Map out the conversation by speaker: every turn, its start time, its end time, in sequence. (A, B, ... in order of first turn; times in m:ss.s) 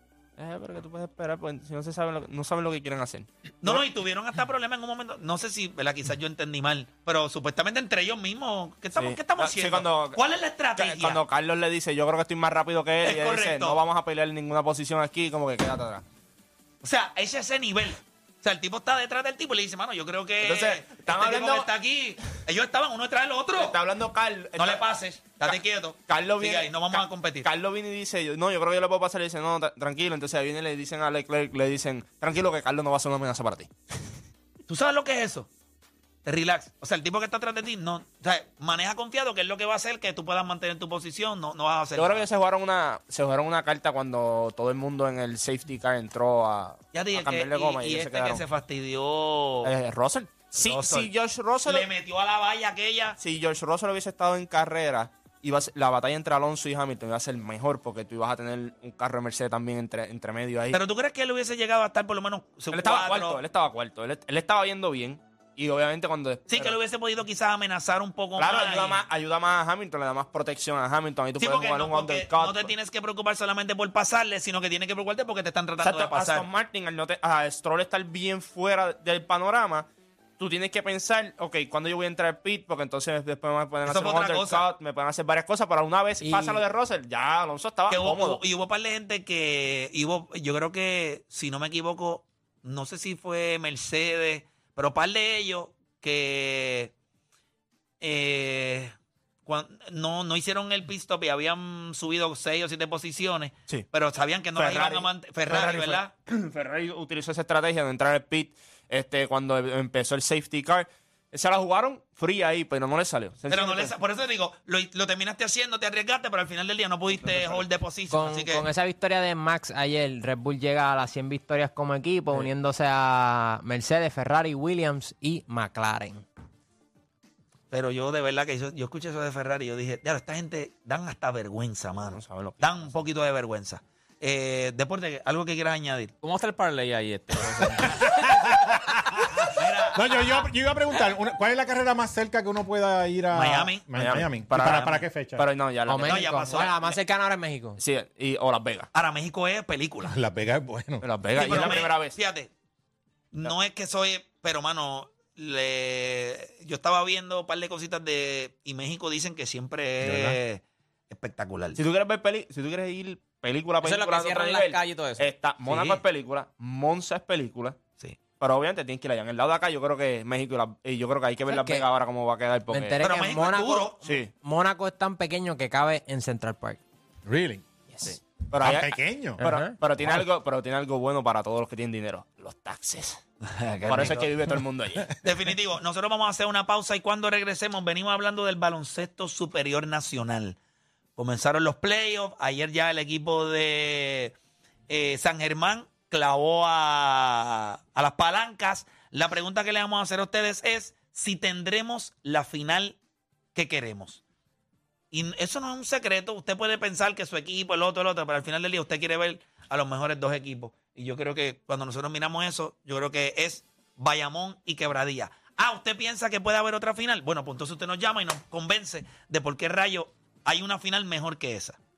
0:00.4-0:03.8 A
0:03.6-0:11.2 B
0:09.0-0:10.2 A
0:10.7-0:16.0 A
0:13.0-0:13.8 B
0:16.8-0:23.7 B
0:20.4-0:21.7 A
0:23.5-0:24.9 A
0:24.6-0:27.5 B
0:25.4-0:34.1 A
0:34.7-0:35.5 B
0:36.2-0:42.2 B
0:42.0-0:48.4 A
0:46.9-0:49.7 B
0:49.6-0:51.9 A
0:50.5-0:51.1 B
0:51.6-0:53.2 B
0:53.2-1:00.8 A
1:00.7-1:03.4 B
1:02.7-1:06.8 A
1:06.5-1:09.0 B
1:08.4-1:12.7 A
1:11.4-1:16.4 B
1:15.8-1:19.9 A
1:20.4-1:28.4 A
1:23.8-1:24.6 B
1:26.2-1:26.6 C
1:27.9-1:36.9 B
1:38.0-1:38.9 B
1:39.4-1:46.1 B
1:44.5-1:53.9 A
1:53.5-1:58.7 B
1:57.1-1:57.6 A
1:58.1-2:06.2 C
2:07.7-2:16.1 B
2:12.0-2:13.0 A
2:16.2-2:18.4 D
2:17.8-2:25.4 E
2:19.4-2:20.5 B
2:23.3-2:23.8 B
2:23.9-2:26.4 A
2:25.9-2:27.8 C
2:26.0-2:27.0 B
2:27.8-2:28.9 A
2:28.9-2:30.1 B
2:30.1-2:31.6 E
2:31.0-2:32.2 A
2:31.3-2:32.5 B
2:33.3-2:41.8 B
2:40.0-2:40.4 E
2:41.7-2:47.8 A
2:43.8-2:45.3 D
2:45.6-2:46.0 B
2:48.4-2:53.0 A
2:51.5-2:51.9 C
2:52.7-2:56.8 C
2:53.0-2:54.0 B
2:54.0-2:54.3 A
2:57.3-2:57.6 E
2:57.9-2:58.2 C
2:58.0-3:03.2 A
2:58.6-2:59.4 E
2:59.4-2:59.7 C
3:03.4-3:04.4 B
3:03.8-3:05.1 A
3:05.2-3:10.6 B
3:11.2-3:14.3 B
3:14.9-3:23.0 B
3:23.5-3:24.2 B
3:25.1-3:41.8 B